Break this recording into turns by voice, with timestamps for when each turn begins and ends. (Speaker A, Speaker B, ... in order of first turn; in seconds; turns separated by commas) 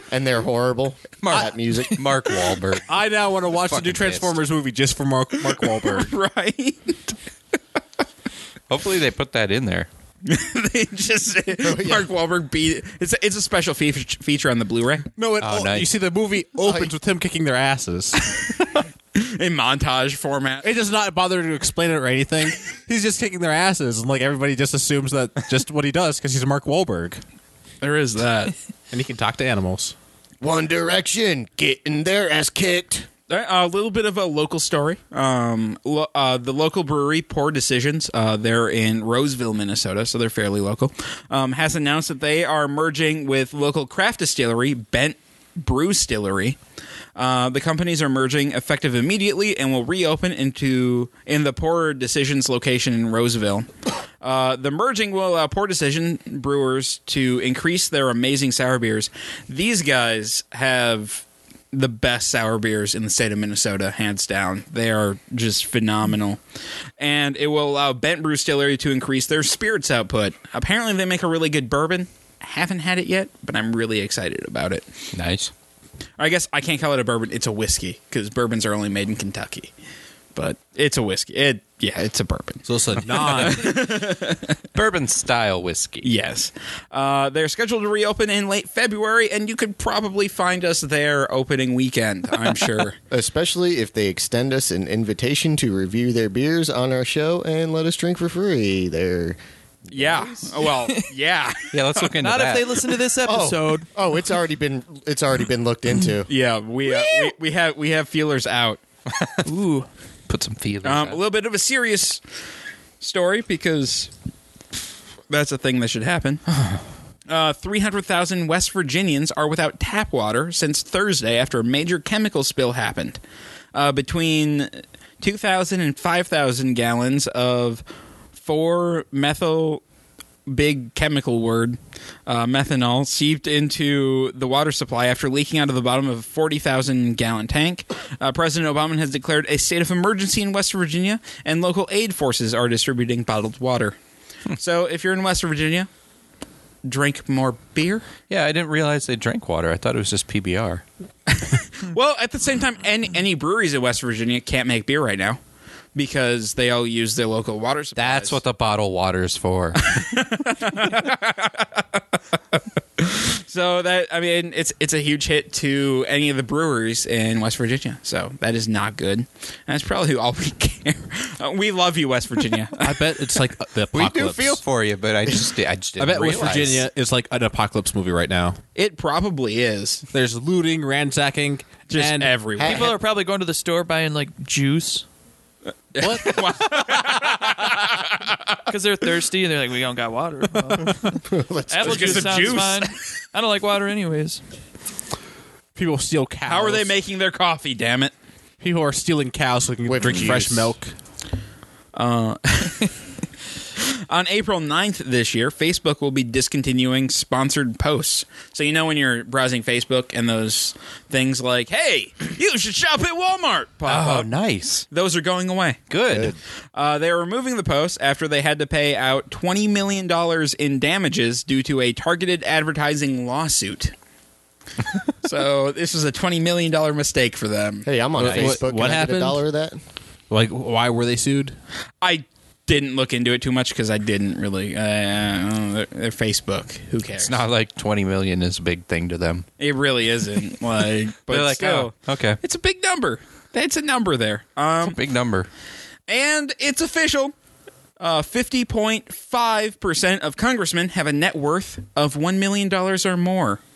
Speaker A: 0.1-2.0, Speaker B: 1.2-2.9, Speaker C: 2.9-6.1, Speaker B: 3.5-4.4, Speaker D: 5.6-7.2, Speaker B: 8.7-9.9, Speaker D: 10.2-15.1, Speaker A: 11.6-12.1, Speaker C: 15.2-18.2, Speaker B: 15.4-15.9, Speaker A: 16.6-16.9, Speaker D: 19.1-20.7, Speaker C: 20.6-27.2, Speaker D: 27.8-28.5, Speaker C: 28.9-29.9, Speaker A: 30.4-33.1, Speaker D: 33.3-46.6, Speaker D: 47.2-53.7, Speaker D: 54.2-66.4, Speaker D: 67.0-74.9, Speaker B: 75.1-75.5, Speaker D: 76.2-79.7, Speaker D: 80.3-84.5, Speaker C: 82.7-83.8, Speaker B: 84.8-86.1, Speaker D: 86.0-93.0, Speaker A: 93.1-99.4, Speaker A: 99.9-100.3, Speaker D: 99.9-101.8, Speaker E: 100.7-101.1, Speaker B: 101.7-102.9, Speaker E: 102.2-103.9, Speaker A: 103.2-106.3, Speaker D: 106.3-108.8, Speaker B: 109.1-109.5, Speaker E: 109.5-109.9, Speaker B: 110.3-111.2, Speaker D: 110.8-112.2, Speaker D: 113.0-114.1, Speaker D: 115.3-116.4, Speaker D: 117.3-123.2, Speaker D: 123.7-127.8, Speaker D: 128.4-129.8, Speaker D: 130.5-144.0, Speaker D: 144.6-145.9, Speaker D: 146.8-148.1, Speaker B: 148.3-150.8, Speaker D: 151.3-155.4, Speaker D: 155.9-158.4, Speaker B: 158.0-159.8, Speaker D: 159.8-162.0, Speaker D: 163.0-173.0, Speaker C: 172.8-174.6, Speaker B: 173.9-176.8, Speaker C: 176.0-178.6, Speaker D: 178.8-180.1, Speaker C: 180.1-182.4, Speaker D: 181.9-182.9, Speaker A: 182.6-183.0, Speaker E: 182.6-185.1, Speaker D: 185.9-188.6, Speaker C: 186.0-186.6, Speaker E: 188.7-194.4, Speaker A: 191.3-192.6, Speaker D: 191.8-192.9, Speaker C: 195.8-196.9, Speaker D: 196.5-198.1, Speaker C: 198.6-200.9, Speaker A: 199.8-200.7, Speaker D: 201.9-202.9, Speaker D: 203.8-214.3, Speaker B: 213.9-214.8, Speaker D: 214.9-215.8, Speaker B: 215.9-216.3, Speaker D: 216.8-223.9, Speaker D: 225.2-227.9, Speaker A: 227.8-229.8, Speaker C: 228.2-229.4, Speaker C: 230.3-231.6, Speaker D: 232.0-237.4, Speaker B: 237.2-239.5, Speaker D: 239.6-245.0, Speaker B: 241.3-242.4, Speaker B: 244.8-245.5, Speaker D: 246.1-247.3, Speaker D: 248.0-253.6